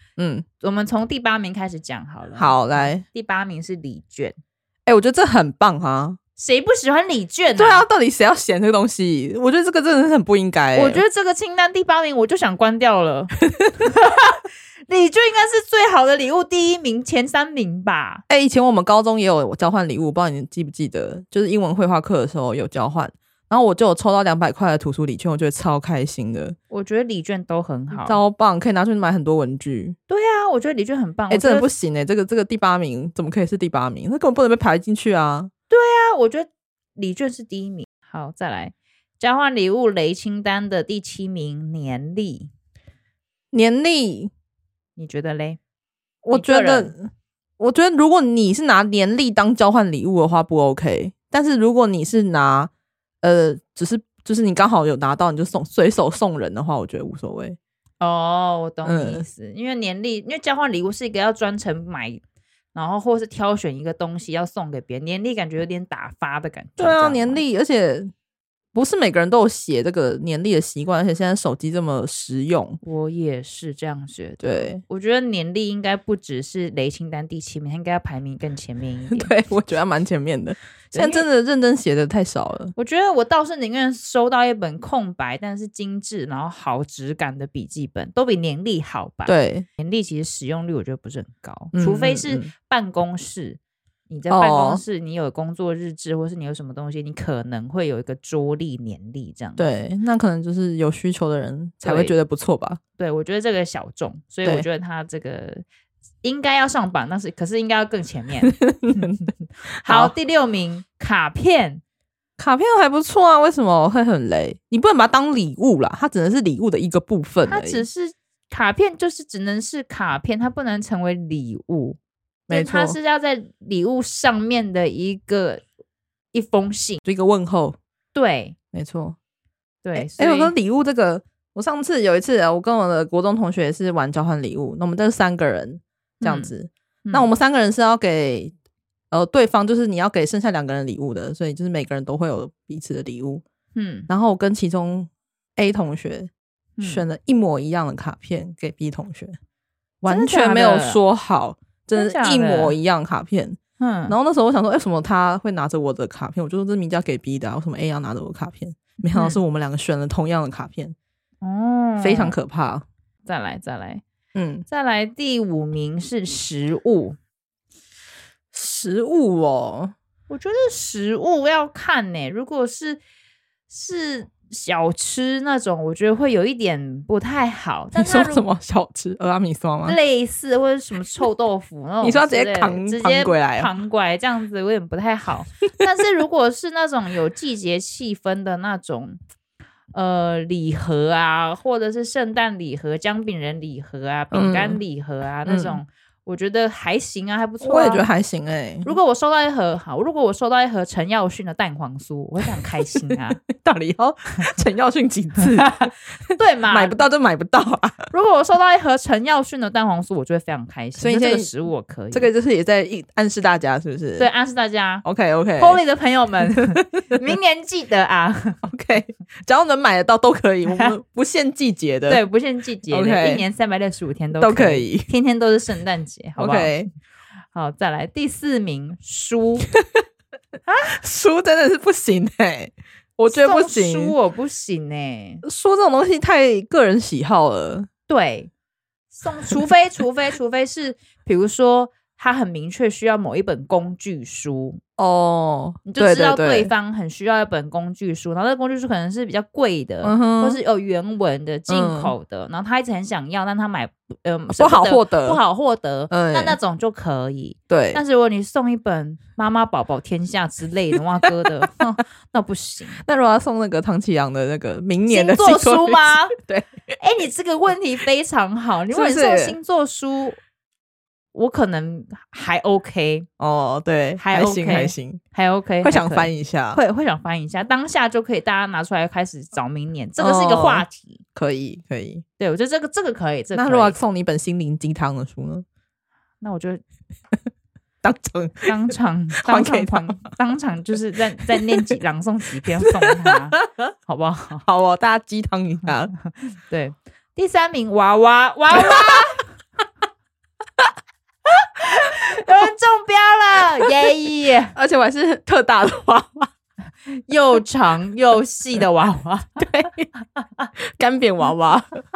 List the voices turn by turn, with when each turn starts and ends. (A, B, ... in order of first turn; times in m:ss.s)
0:00.2-0:00.4 A
0:00.6-0:04.4 B
0:02.4-0:03.0 A
0:04.8-0:06.2 A
0:06.4-0:07.8 B
0:07.6-0:11.0 A
0:10.7-0:18.2 B
0:18.3-0:26.6 A
0:26.7-0:28.2 B
0:27.9-0:30.0 A
0:30.1-0:31.7 B
0:31.3-0:35.5 A
0:35.7-0:42.5 B
0:43.5-0:44.3 A
0:45.0-0:45.6 B
0:46.2-0:52.7 A
0:46.3-0:46.9 B
0:53.2-0:57.6 A
0:58.0-1:02.2 B
0:58.8-0:59.2 A
1:02.7-1:07.4 B
1:06.8-1:08.1 A
1:08.7-1:12.8 A
1:12.8-1:19.3 B
1:14.4-1:14.8 A
1:19.1-1:22.7 A
1:20.9-1:21.2 B
1:22.8-1:33.6 B
1:29.2-1:29.6 A
1:31.7-1:32.5 A
1:34.1-1:39.6 B
1:34.3-1:34.8 A
1:39.6-1:42.8 A
1:41.8-1:42.1 B
1:43.0-1:45.6 B
1:46.2-1:49.3 B
1:48.5-1:49.2 A
1:49.8-1:50.1 A
1:49.8-1:51.8 B
1:52.4-1:57.8 A
1:57.4-2:05.6 B
2:02.5-2:03.0 A
2:06.3-2:07.0 B
2:07.0-2:07.8 A
2:08.1-2:08.5 B
2:08.7-2:09.2 A
2:09.8-2:10.5 B
2:10.0-2:18.5 A
2:16.2-2:16.5 B
2:19.1-2:23.4 A
2:23.7-2:24.1 B
2:24.1-2:29.4 A
2:26.8-2:27.0 B
2:30.0-2:40.9 A
2:30.1-2:31.0 B
2:31.9-2:32.8 B
2:33.8-2:34.2 B
2:39.1-2:39.4 B
2:41.4-2:42.4 B
2:42.0-2:42.8 A
2:43.2-2:44.0 B
2:44.3-2:44.6 A
2:44.7-2:47.2 B
2:48.5-2:49.9 A
2:50.3-2:53.0 B
2:53.7-2:58.4 B
2:57.9-3:00.0 A
2:59.8-3:09.2 B
3:02.0-3:03.7 A
3:09.9-3:18.0 B
3:14.3-3:14.8 A
3:15.4-3:15.8 A
3:17.6-3:18.9 A
3:18.8-3:23.4 B
3:23.5-3:28.1 A
3:25.6-3:27.0 B
3:28.1-3:32.3 B
3:31.0-3:31.5 A
3:32.1-3:34.3 A
3:34.2-3:35.0 B
3:35.0-3:35.8 A
3:35.6-3:38.6 B
3:38.6-3:42.2 A
3:42.1-3:46.8 B
3:42.9-3:43.4 A
3:44.4-3:45.1 A
3:46.4-3:46.9 A
3:47.5-3:49.7 B
3:50.7-3:51.0 B
3:50.8-3:54.1 A
3:53.3-3:55.4 B
3:55.4-3:57.9 A
3:58.1-3:58.5 B
3:59.1-4:04.8 B
4:05.0-4:06.7 A
4:05.8-4:23.0 B
4:10.0-4:10.6 A
4:11.7-4:12.1 A
4:14.6-4:15.4 A
4:16.1-4:16.6 A
4:17.7-4:18.0 A
4:23.0-4:26.9 A
4:25.1-4:26.3 B
4:27.0-4:30.4 B
4:28.9-4:29.6 A
4:31.3-4:33.3 B
4:33.4-4:35.2 A
4:34.2-4:41.2 B
4:35.8-4:36.8 A
4:40.2-4:42.2 A
4:42.4-4:44.0 B
4:43.5-4:45.6 A
4:46.4-4:46.8 B
4:48.0-4:48.7 A
4:48.6-4:54.6 B
4:49.4-4:50.2 A
4:52.8-4:53.7 A
4:54.6-4:56.1 A
4:56.1-4:59.4 B
4:58.8-4:59.2 A
5:01.5-5:04.7 B
5:04.7-5:06.5 A
5:07.2-5:09.8 B
5:09.6-5:10.1 A
5:11.0-5:12.0 A